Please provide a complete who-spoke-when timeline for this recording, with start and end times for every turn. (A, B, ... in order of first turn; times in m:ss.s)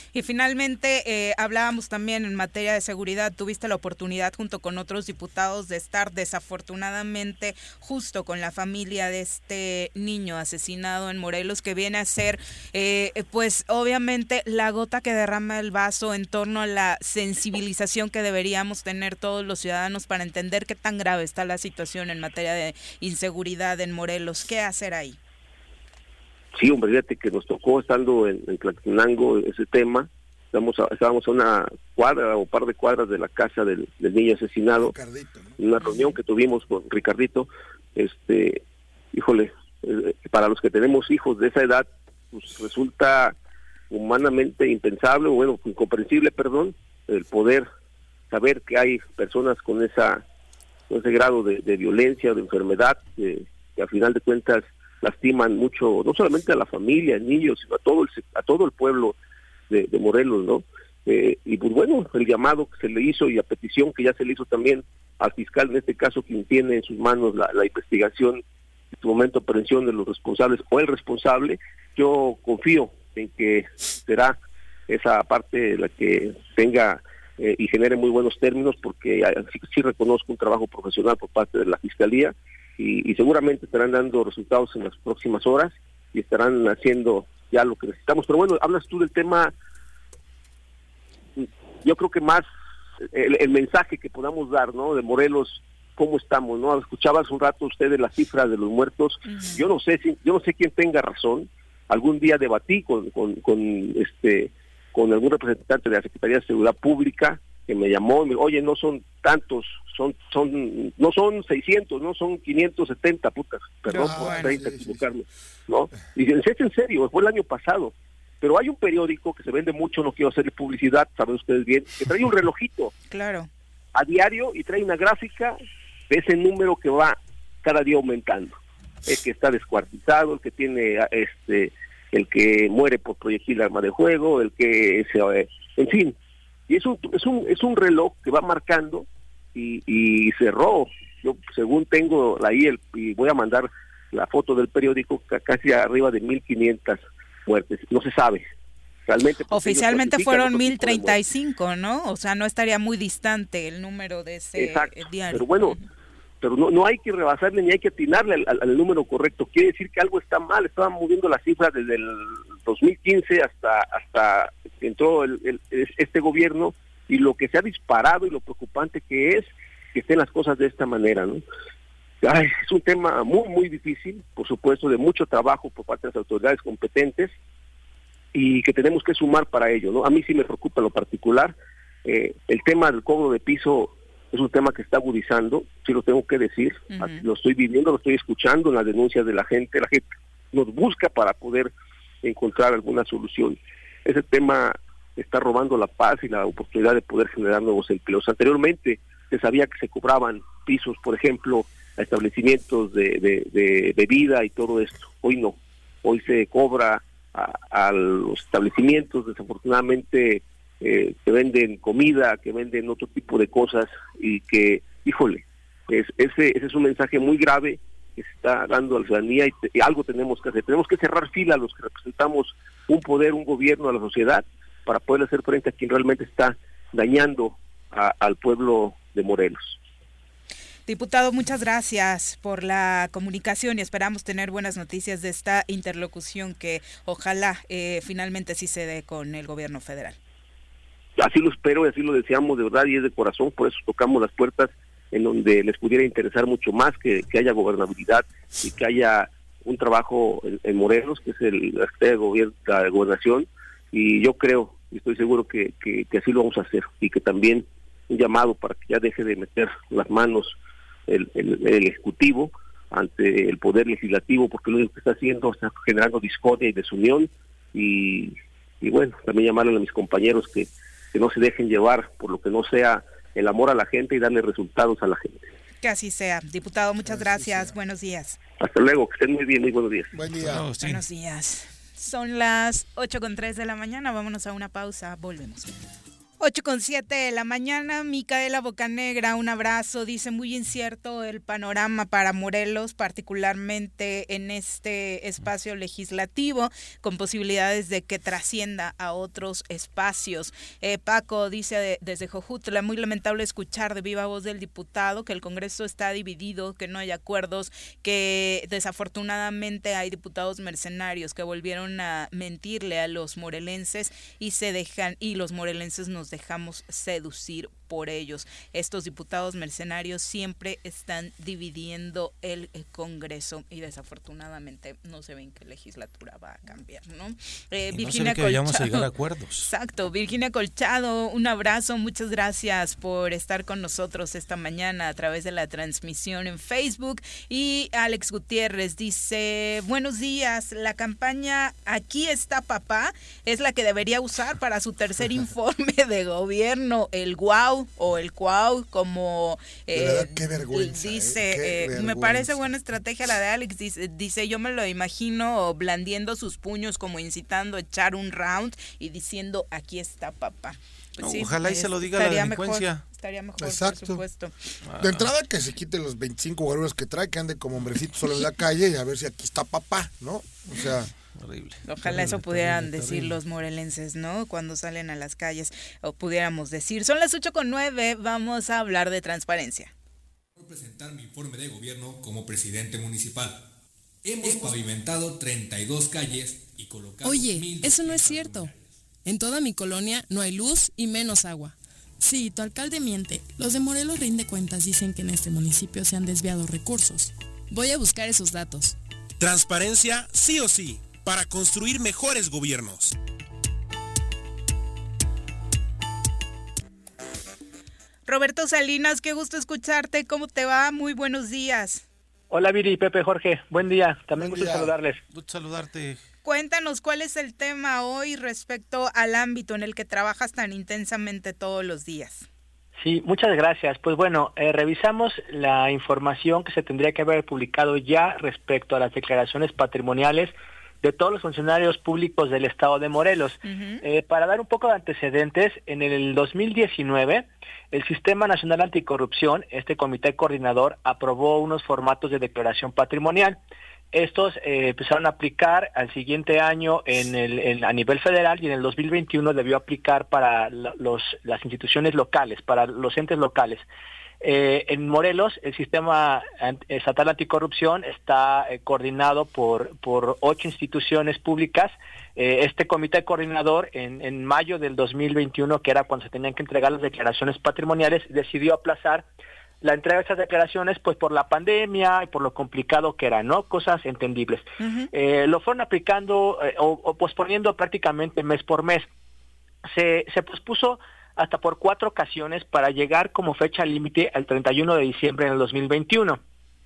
0:00.1-0:25.2 A
0:26.6-0:34.9 B
0:34.8-0:35.6 C
0:35.6-0:38.6 B
0:39.1-0:43.4 B
0:43.9-0:47.7 B
0:48.3-0:50.2 B
0:50.9-0:59.2 B
0:59.7-1:08.4 B
1:09.0-1:29.5 B
1:31.4-1:32.5 B
1:33.1-2:02.9 B
1:39.3-1:39.6 A
1:53.9-1:54.5 A
1:53.9-1:55.0 C
2:03.1-2:03.5 A
2:04.0-2:05.6 B
2:06.1-2:16.2 B
2:16.7-2:28.4 B
2:29.1-2:31.2 B
2:29.5-2:35.8 A
2:34.6-2:35.8 B
2:36.4-2:51.4 B
2:52.2-2:57.3 B
2:58.3-3:11.7 B
3:06.9-3:07.2 A
3:12.2-3:49.8 B
3:50.9-4:00.2 A
4:01.2-4:20.6 B
4:21.1-4:35.5 B
4:35.8-4:38.4 A
4:37.1-4:37.7 C
4:38.6-4:40.1 B
4:40.1-4:40.6 C
4:40.4-4:41.0 D
4:40.8-4:45.7 A
4:46.4-5:29.1 A
5:27.9-5:29.7 D
5:29.6-6:04.5 A
5:49.9-5:52.6 C
6:01.2-6:03.0 D
6:03.6-6:04.2 C
6:04.9-6:05.3 D
6:05.0-6:11.1 C
6:11.3-6:13.4 D
6:11.8-6:19.9 A
6:20.6-6:23.6 E
6:24.3-6:28.8 E
6:27.2-6:28.7 F
6:29.2-6:39.0 F
6:39.4-6:43.2 G
6:48.3-6:52.0 A
6:52.5-6:55.2 H
6:54.4-6:55.0 C
6:55.3-6:56.2 D
6:56.4-7:02.5 A
7:03.0-7:23.6 H
7:13.6-7:14.0 A
7:24.1-7:33.8 H
7:34.4-7:49.3 H
7:49.8-7:59.1 H
7:54.8-7:55.1 A
7:59.9-8:06.4 H